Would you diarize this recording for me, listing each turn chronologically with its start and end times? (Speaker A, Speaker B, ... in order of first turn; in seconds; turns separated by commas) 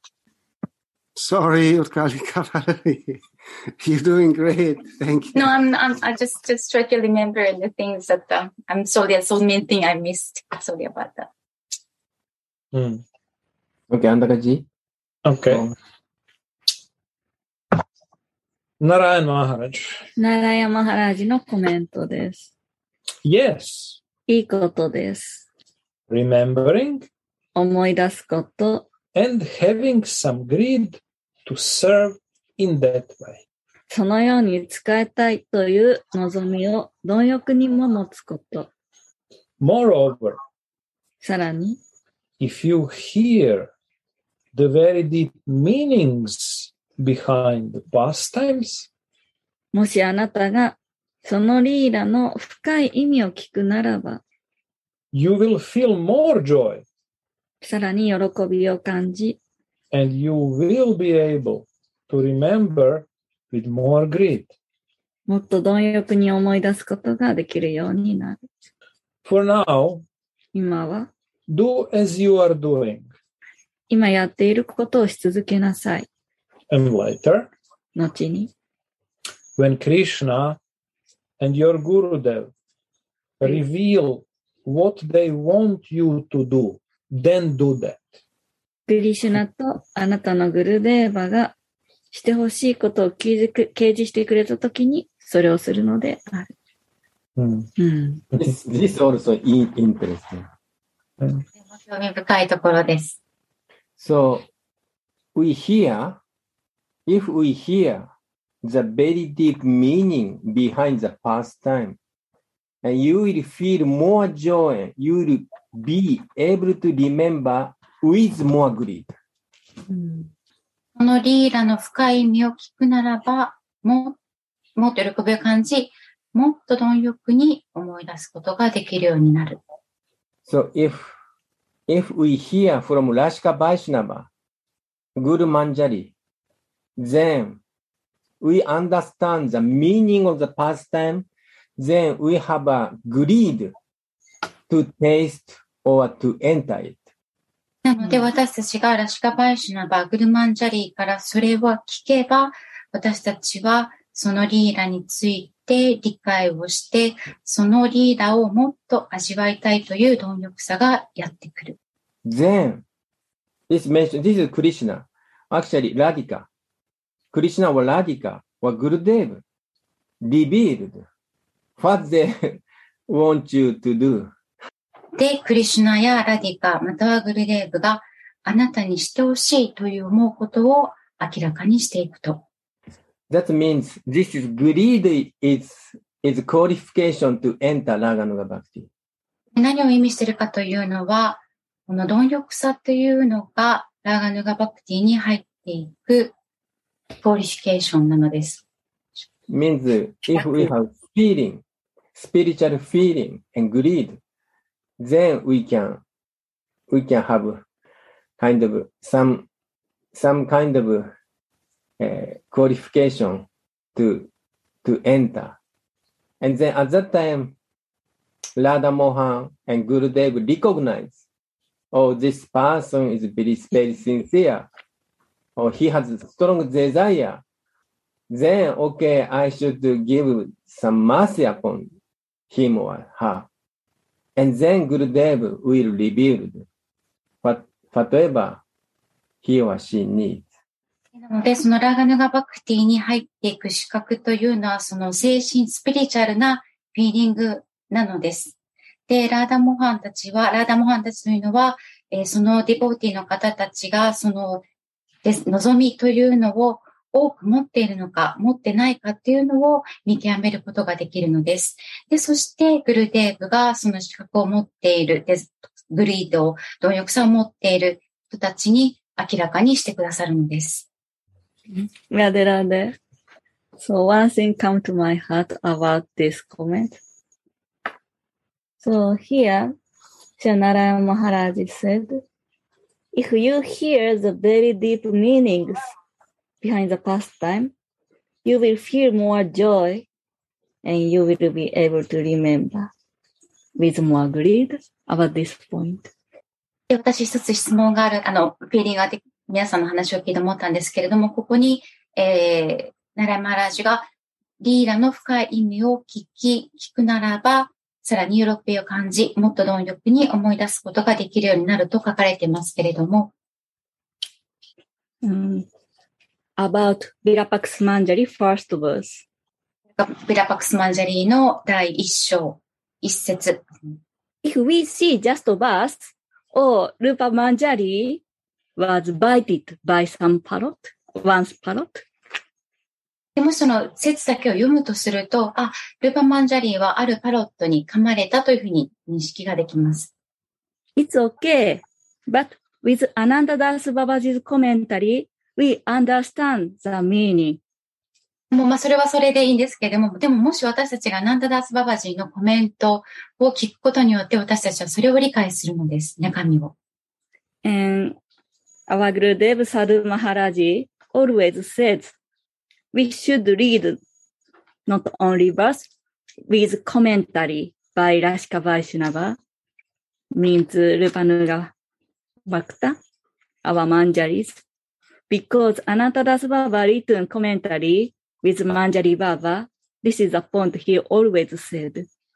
Speaker A: 1.2-3.2, Speaker A: 3.8-5.5, Speaker B: 5.3-11.3, Speaker C: 12.7-13.0, Speaker D: 13.9-14.7, Speaker C: 15.3-15.6, Speaker D: 15.5-15.7, Speaker C: 18.8-20.0, Speaker E: 20.2-22.5, Speaker C: 23.2-24.0, Speaker E: 24.3-25.4, Speaker C: 26.1-27.1, Speaker E: 27.6-28.9, Speaker C: 29.1-33.4, Speaker E: 33.9-38.7, Speaker C: 39.6-40.4, Speaker E: 41.2-41.8, Speaker C: 42.4-43.7, Speaker C: 44.5-48.9, Speaker E: 49.7-54.2, Speaker C: 55.1-56.9, Speaker E: 57.6-59.4, Speaker C: 59.9-64.5, Speaker E: 65.3-68.5, Speaker C: 69.2-70.0, Speaker E: 70.5-71.1, Speaker C: 71.5-73.1, Speaker E: 73.9-76.1, Speaker C: 76.7-77.5, Speaker E: 78.0-78.5, Speaker C: 79.6-80.6, Speaker C: 81.4-82.5, Speaker C: 83.4-88.1, Speaker E: 88.9-91.5, Speaker E: 92.1-96.5, Speaker C: 97.4-97.7, Speaker E: 97.8-98.2, Speaker D: 98.3-100.5, Speaker B: 101.7-103.2, Speaker D: 104.0-104.5, Speaker D: 105.3-106.2, Speaker D: 107.1-108.1, Speaker D: 108.6-112.0, Speaker D: 112.8-119.1, Speaker B: 121.0-124.2, Speaker B: 124.8-129.6, Speaker D: 130.5-131.2, Speaker D: 131.9-134.3, Speaker D: 135.2-136.1, Speaker D: 137.0-137.6, Speaker D: 138.4-141.3, Speaker D: 141.8-143.7, Speaker D: 144.7-147.0, Speaker B: 147.8-161.8, Speaker D: 162.3-162.8, Speaker D: 163.7-166.5, Speaker D: 167.3-169.4, Speaker D: 170.2-171.1, Speaker D: 171.8-174.3, Speaker B: 175.2-182.4, Speaker D: 183.3-188.9, Speaker B: 189.6-196.3, Speaker B: 197.2-198.6, Speaker D: 199.5-201.6, Speaker D: 202.2-204.2, Speaker D: 205.0-206.0, Speaker D: 206.9-207.6, Speaker D: 208.4-209.5, Speaker D: 210.1-211.1, Speaker D: 212.0-214.3, Speaker D: 214.8-215.6, Speaker D: 216.4-217.6, Speaker D: 218.6-221.2, Speaker D: 221.9-224.7, Speaker D: 225.6-227.4, Speaker D: 228.3-231.9, Speaker D: 232.5-233.5, Speaker D: 234.4-236.7, Speaker D: 237.4-238.6, Speaker D: 239.4-240.5, Speaker B: 241.2-248.5, Speaker B: 249.1-254.6, Speaker B: 255.2-270.9, Speaker E: 271.7-273.0, Speaker E: 273.8-277.0, Speaker E: 278.8-279.7, Speaker E: 280.4-282.2, Speaker E: 283.1-285.8, Speaker E: 286.6-287.7, Speaker E: 288.4-290.1, Speaker E: 290.8-292.9, Speaker E: 293.8-296.1, Speaker B: 296.9-304.1, Speaker B: 304.6-313.3, Speaker E: 315.2-315.7, Speaker E: 316.6-319.2, Speaker B: 320.0-323.6, Speaker E: 324.4-328.2, Speaker E: 328.8-332.0, Speaker B: 333.4-340.1, Speaker E: 341.0-347.6, Speaker B: 348.5-356.8, Speaker E: 357.6-358.2, Speaker E: 358.9-362.1, Speaker E: 362.9-364.0, Speaker E: 364.9-365.9, Speaker E: 366.5-369.4, Speaker E: 370.3-371.7, Speaker E: 372.5-373.0, Speaker E: 373.6-374.6, Speaker E: 375.3-382.1